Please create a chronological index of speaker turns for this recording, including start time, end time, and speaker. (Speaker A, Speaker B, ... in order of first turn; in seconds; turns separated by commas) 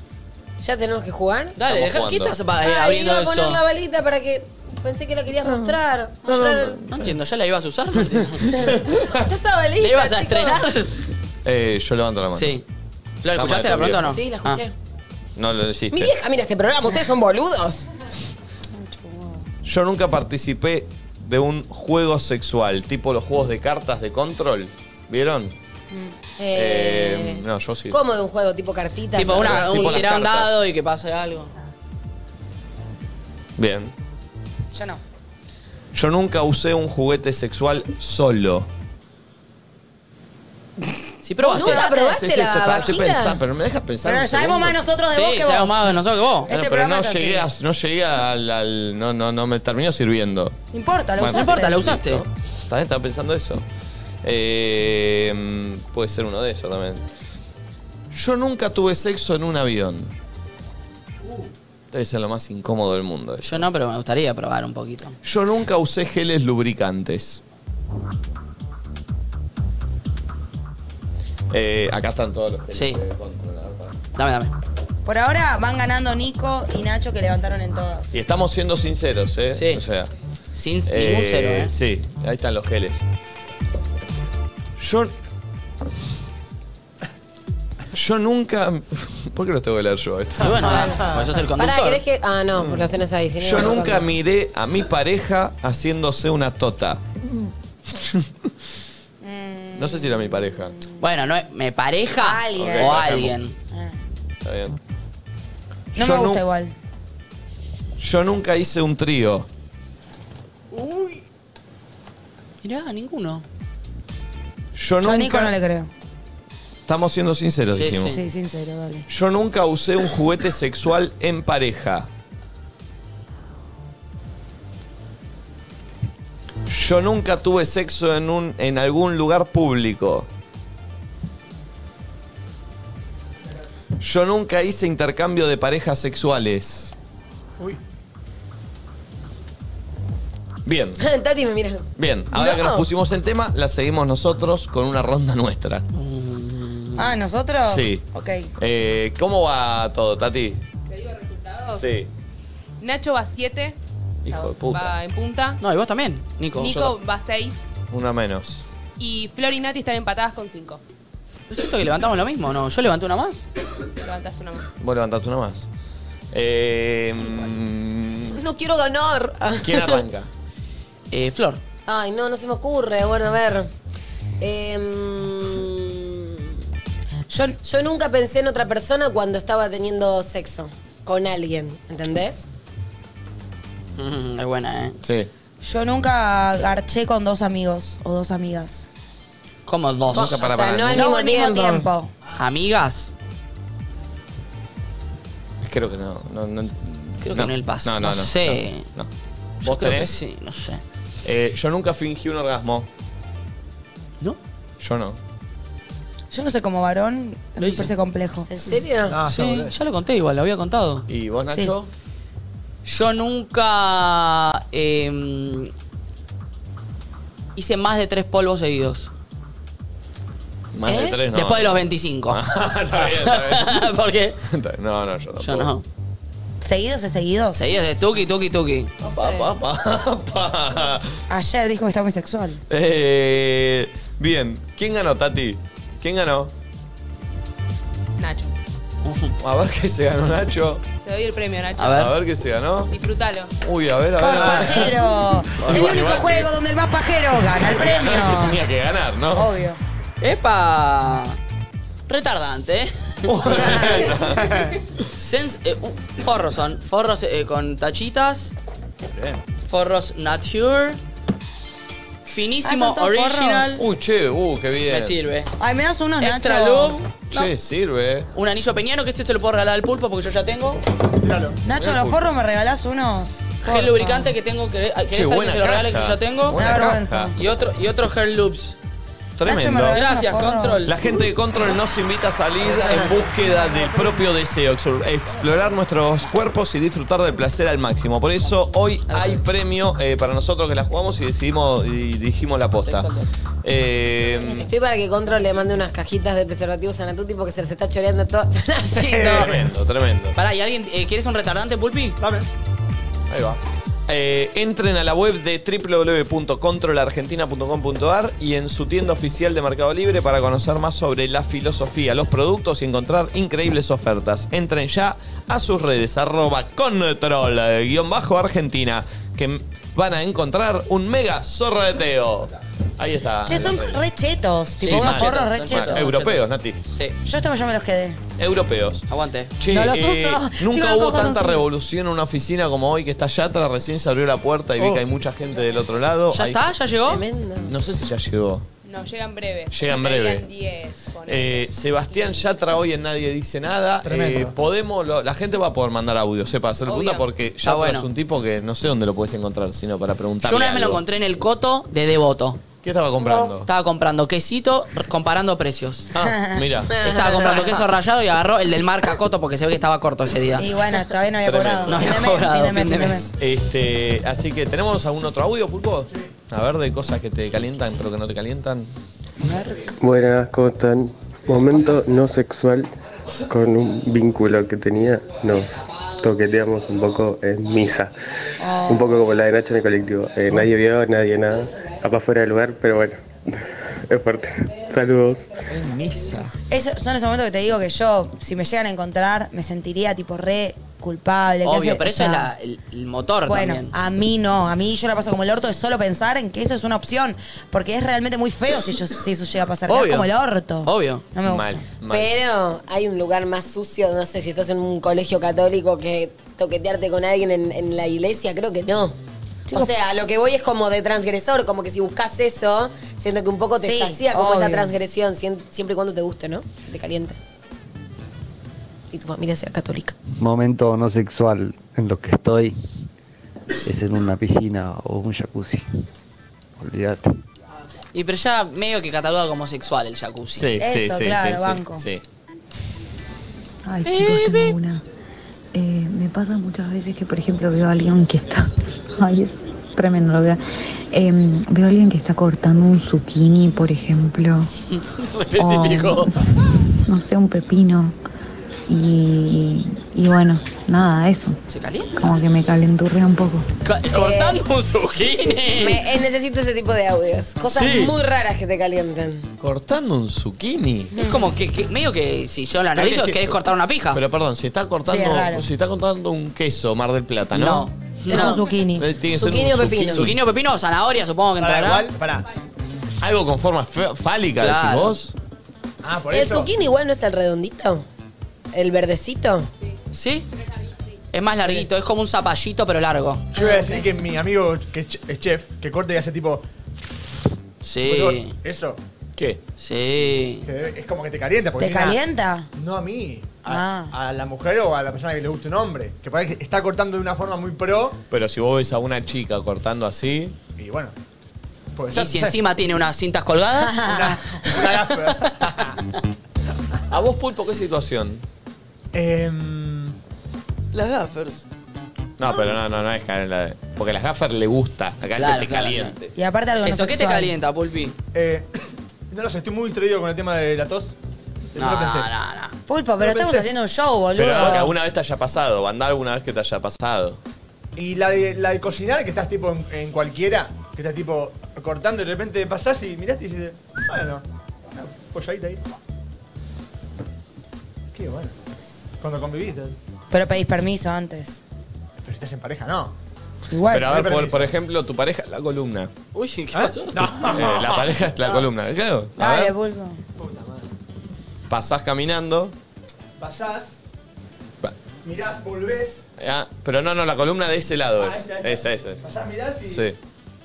Speaker A: 0.6-1.6, Speaker B: 1.6-3.6, Speaker C: 1.6-2.4, Speaker A: 2.6-6.8, Speaker C: 5.4-7.1, Speaker B: 6.9-8.5, Speaker C: 8.4-8.7, Speaker A: 8.5-10.7, Speaker B: 9.8-10.9, Speaker C: 11.4-12.6, Speaker B: 12.3-12.6, Speaker B: 13.2-14.6, Speaker C: 13.3-14.2, Speaker A: 14.0-14.7, Speaker C: 15.4-16.1, Speaker A: 15.9-17.9, Speaker D: 18.8-19.5, Speaker C: 19.6-25.6, Speaker A: 26.4-30.0, Speaker C: 26.5-28.0, Speaker B: 29.1-31.5, Speaker C: 29.2-30.6, Speaker C: 33.6-33.9, Speaker D: 34.7-35.0, Speaker C: 35.9-38.7, Speaker B: 41.2-41.8, Speaker A: 41.5-43.4, Speaker C: 41.5-44.8, Speaker D: 44.0-47.5, Speaker B: 45.1-46.5, Speaker C: 46.5-50.6, Speaker D: 50.7-51.9, Speaker C: 51.2-53.6, Speaker B: 51.2-52.2, Speaker C: 54.2-57.0, Speaker C: 58.1-60.1, Speaker C: 61.9-63.7, Speaker B: 63.4-65.2, Speaker C: 65.2-67.4, Speaker C: 71.5-74.0, Speaker B: 72.7-73.0, Speaker B: 74.2-74.5, Speaker D: 75.0-78.2, Speaker C: 78.1-80.1, Speaker B: 79.5-79.8, Speaker B: 80.5-81.7, Speaker C: 80.9-83.1, Speaker C: 84.8-85.1, Speaker C: 87.9-90.9, Speaker B: 90.4-92.0, Speaker A: 90.6-91.0, Speaker A: 91.6-94.1, Speaker C: 92.6-97.0, Speaker D: 99.2-101.0, Speaker C: 99.8-100.8, Speaker B: 101.0-103.5, Speaker D: 102.2-103.1, Speaker C: 102.6-103.4, Speaker D: 103.7-104.0, Speaker C: 104.4-104.8, Speaker C: 105.9-106.4, Speaker D: 106.0-106.7, Speaker C: 108.0-109.5, Speaker E: 110.7-111.2, Speaker B: 112.6-113.4, Speaker C: 114.7-115.5, Speaker D: 115.0-115.9, Speaker C: 116.9-118.2, Speaker B: 117.7-118.2, Speaker D: 118.1-119.1, Speaker C: 119.1-122.1, Speaker C: 126.7-130.3, Speaker C: 134.0-137.0, Speaker C: 140.7-141.0, Speaker A: 141.0-142.9, Speaker C: 142.0-145.9, Speaker B: 145.9-147.2, Speaker D: 147.0-148.5, Speaker C: 147.7-148.0, Speaker C: 148.6-150.6, Speaker F: 150.9-152.0, Speaker C: 151.7-152.1, Speaker F: 152.8-155.6, Speaker C: 154.2-154.9, Speaker B: 155.6-156.8, Speaker F: 156.6-157.7, Speaker C: 156.6-157.0, Speaker C: 157.9-158.8, Speaker F: 159.0-160.8, Speaker B: 161.5-163.4, Speaker F: 164.0-164.7, Speaker C: 164.8-165.7, Speaker C: 166.3-168.4, Speaker A: 168.3-170.0, Speaker C: 169.6-170.3, Speaker B: 171.1-171.6, Speaker A: 171.9-173.7, Speaker A: 174.4-176.6, Speaker D: 177.3-177.6, Speaker A: 177.6-182.5, Speaker B: 184.0-185.0, Speaker C: 185.0-185.3, Speaker D: 185.6-188.9, Speaker B: 189.7-190.3, Speaker C: 190.1-191.1, Speaker A: 190.1-191.9, Speaker D: 190.9-192.1, Speaker B: 192.4-193.1, Speaker C: 195.6-199.1, Speaker B: 197.2-198.9, Speaker C: 199.6-200.2, Speaker B: 199.6-200.8, Speaker C: 201.2-202.9, Speaker C: 204.8-205.2, Speaker D: 206.3-208.5, Speaker B: 207.6-207.9, Speaker A: 208.5-209.2, Speaker E: 209.1-209.8, Speaker B: 209.2-211.1, Speaker C: 211.1-211.9, Speaker D: 211.5-211.7, Speaker B: 212.8-215.7, Speaker B: 217.6-219.1, Speaker C: 220.7-225.7, Speaker A: 220.9-221.2, Speaker B: 221.3-224.4, Speaker B: 225.4-225.8, Speaker D: 226.6-228.2, Speaker B: 227.6-229.4, Speaker C: 229.0-231.2, Speaker D: 231.3-232.6, Speaker C: 232.7-236.5, Speaker F: 238.2-238.5, Speaker B: 239.0-239.3, Speaker C: 239.4-240.8, Speaker F: 241.0-242.1, Speaker B: 241.8-242.1, Speaker C: 241.8-242.9, Speaker F: 242.9-243.5, Speaker C: 243.6-246.6, Speaker D: 244.2-248.6, Speaker E: 244.3-244.8, Speaker C: 247.5-249.5, Speaker D: 249.3-249.8, Speaker B: 250.2-251.4, Speaker B: 252.1-254.2, Speaker C: 253.2-255.0, Speaker D: 253.5-254.2, Speaker E: 254.5-254.7, Speaker B: 255.2-258.5, Speaker C: 259.1-259.4, Speaker B: 259.7-261.0, Speaker B: 262.3-263.9, Speaker D: 262.6-263.8, Speaker C: 263.8-265.2, Speaker B: 264.9-265.5, Speaker D: 265.6-267.0, Speaker B: 266.2-267.5, Speaker C: 267.3-268.3, Speaker B: 268.3-270.8, Speaker E: 271.1-271.6, Speaker D: 271.6-274.3, Speaker B: 273.6-276.6, Speaker C: 275.1-277.4, Speaker D: 276.6-277.4, Speaker B: 277.4-278.8, Speaker C: 279.4-280.1, Speaker D: 279.4-280.9, Speaker B: 279.9-280.9, Speaker C: 280.8-293.1, Speaker B: 282.6-284.3, Speaker B: 289.1-289.4, Speaker B: 292.8-293.3, Speaker C: 293.6-294.7, Speaker A: 294.3-299.6, Speaker E: 298.9-299.6, Speaker C: 299.2-300.4, Speaker B: 300.4-302.2, Speaker E: 302.2-302.5, Speaker C: 303.3-324.1, Speaker D: 323.4-326.3, Speaker B: 324.8-327.2, Speaker C: 324.8-326.8, Speaker D: 327.2-328.2, Speaker C: 328.4-329.1, Speaker B: 329.1-329.5, Speaker C: 329.6-336.8, Speaker D: 329.7-331.7, Speaker E: 334.8-335.0, Speaker B: 336.3-337.2, Speaker A: 337.1-337.7, Speaker C: 337.7-338.7, Speaker F: 338.8-342.6, Speaker C: 339.7-340.5, Speaker C: 341.3-351.0, Speaker E: 344.0-344.6, Speaker F: 346.9-347.3, Speaker B: 347.6-348.1, Speaker B: 350.4-352.6, Speaker C: 352.8-353.7, Speaker B: 353.6-356.1, Speaker C: 356.1-357.0, Speaker D: 356.2-356.7, Speaker A: 356.9-357.8, Speaker B: 357.0-360.7, Speaker D: 360.6-363.3, Speaker C: 361.4-362.2, Speaker B: 361.9-363.3, Speaker C: 363.4-368.9, Speaker D: 369.4-370.0, Speaker G: 370.0-372.9, Speaker G: 373.5-378.1, Speaker D: 378.6-379.1, Speaker G: 378.9-385.5, Speaker C: 385.7-386.5, Speaker D: 386.7-392.5, Speaker B: 391.6-393.9, Speaker D: 393.5-401.8, Speaker B: 399.9-400.3, Speaker B: 400.8-401.2, Speaker C: 401.4-402.3, Speaker A: 402.1-409.1, Speaker A: 409.7-417.4, Speaker D: 413.8-414.9, Speaker A: 419.1-420.2, Speaker H: 420.4-422.8, Speaker H: 423.8-425.9, Speaker H: 426.8-427.3, Speaker B: 428.1-430.7, Speaker C: 430.5-432.2, Speaker D: 430.8-432.1, Speaker I: 433.9-435.0, Speaker B: 434.1-434.8, Speaker I: 435.7-440.6, Speaker I: 441.1-444.7, Speaker B: 445.0-446.3, Speaker I: 445.6-446.3, Speaker I: 447.1-448.1, Speaker I: 448.9-451.6, Speaker B: 451.7-452.1, Speaker I: 452.2-453.7, Speaker B: 453.8-456.1, Speaker A: 454.1-454.6, Speaker A: 455.8-459.5, Speaker B: 457.7-458.1, Speaker C: 459.6-461.1, Speaker D: 461.1-461.5, Speaker B: 461.2-464.2, Speaker C: 462.9-463.6, Speaker C: 464.1-470.4, Speaker D: 465.1-465.7, Speaker B: 467.6-468.6, Speaker D: 468.3-469.1, Speaker A: 469.3-470.3, Speaker B: 470.2-472.1, Speaker E: 471.6-472.5, Speaker C: 473.2-475.4, Speaker B: 474.6-475.2, Speaker E: 476.0-476.7, Speaker A: 476.3-478.1, Speaker A: 478.7-479.7, Speaker F: 479.8-481.3, Speaker B: 480.1-480.5, Speaker B: 481.3-483.5, Speaker E: 483.5-487.1, Speaker B: 487.8-488.6, Speaker E: 488.0-489.0, Speaker C: 489.4-489.6, Speaker B: 489.8-490.7, Speaker E: 490.6-492.2, Speaker D: 491.8-492.7, Speaker E: 492.8-498.2, Speaker D: 493.6-494.1, Speaker C: 498.3-500.6, Speaker E: 500.8-501.1, Speaker E: 501.9-502.6, Speaker B: 502.1-504.1, Speaker D: 503.8-505.0, Speaker E: 504.0-506.0, Speaker C: 507.1-508.4, Speaker E: 509.1-510.1, Speaker C: 510.9-511.7, Speaker C: 512.4-516.3, Speaker B: 515.4-516.2, Speaker D: 516.4-517.5, Speaker B: 516.8-518.2, Speaker E: 518.3-518.7, Speaker E: 519.3-521.2, Speaker E: 521.7-522.3, Speaker B: 521.8-522.8, Speaker D: 522.9-524.9, Speaker E: 523.2-523.7, Speaker C: 524.4-527.4, Speaker E: 528.0-535.9, Speaker E: 538.1-538.6, Speaker E: 539.2-540.0, Speaker D: 540.3-541.6, Speaker E: 542.2-543.1, Speaker D: 543.7-544.2, Speaker C: 543.9-546.1, Speaker E: 543.9-544.7, Speaker B: 546.3-547.4, Speaker E: 546.7-548.6, Speaker C: 547.4-549.8, Speaker D: 549.4-550.2, Speaker E: 550.4-550.9, Speaker C: 551.7-552.8, Speaker E: 553.4-554.0, Speaker E: 555.2-556.2, Speaker C: 556.4-559.2, Speaker E: 558.2-560.1, Speaker C: 559.9-560.2